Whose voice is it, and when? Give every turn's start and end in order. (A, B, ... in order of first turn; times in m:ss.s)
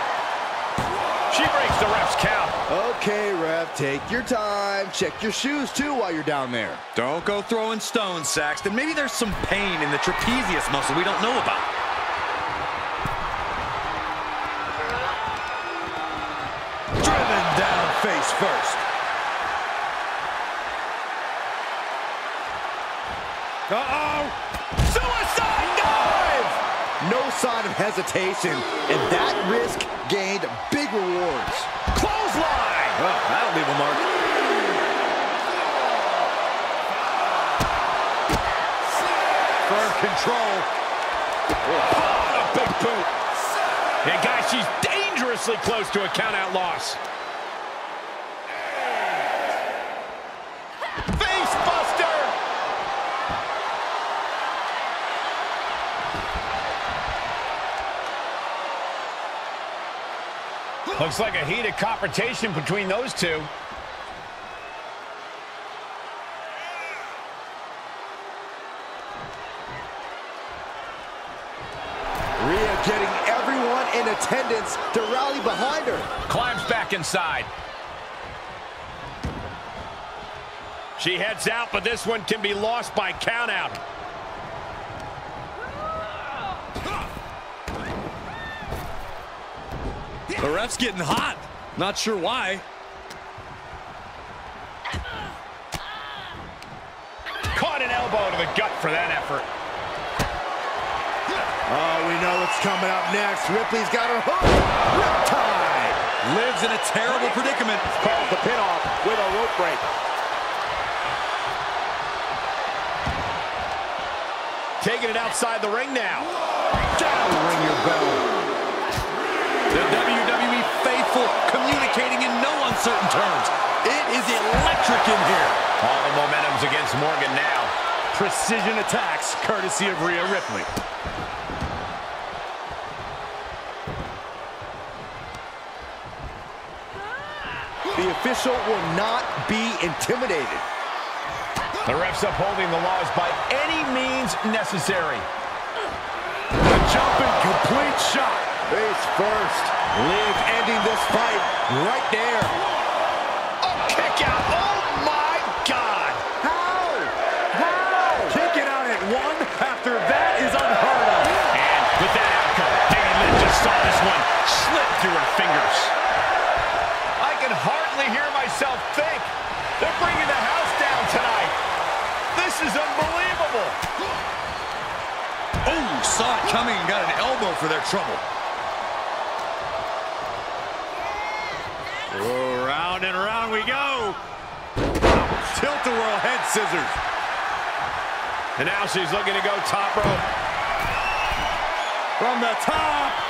0:01.3-0:02.6 A
0:02.7-0:06.8 B
0:07.0-0:11.7 C
0:17.0-0:18.8 C
0:23.7-0:24.4 C
0:24.8-0:26.6 A
0:27.0-0:31.7 B
0:31.9-0:33.0 A
0:33.0-0:34.1 C
0:39.6-0:40.7 C
0:42.0-0:43.1 A
0:44.0-0:47.0 A
0:51.1-0:52.4 A
1:01.0-1:03.5 A
1:12.4-1:16.1 B
1:16.3-1:17.5 A
1:21.0-1:23.8 A
1:30.4-1:32.6 C
1:37.5-1:39.5 A
1:41.7-1:46.0 B
1:46.2-1:47.9 C
1:48.0-1:49.8 A
1:54.8-1:56.3 A
1:56.9-1:58.2 B
1:59.7-2:05.6 C
2:05.8-2:07.7 A
2:08.1-2:10.7 C
2:17.9-2:20.6 B
2:21.8-2:25.3 A
2:26.6-2:28.5 C
2:28.7-2:32.6 B
2:33.6-2:36.2 A
2:36.4-2:38.4 B
2:38.2-2:41.4 C
2:41.5-2:46.0 A
2:47.2-2:51.6 A
2:52.3-2:53.8 A
2:55.6-2:58.2 C
3:02.1-3:04.2 C
3:05.1-3:07.0 C
3:08.6-3:10.3 A
3:12.2-3:13.2 C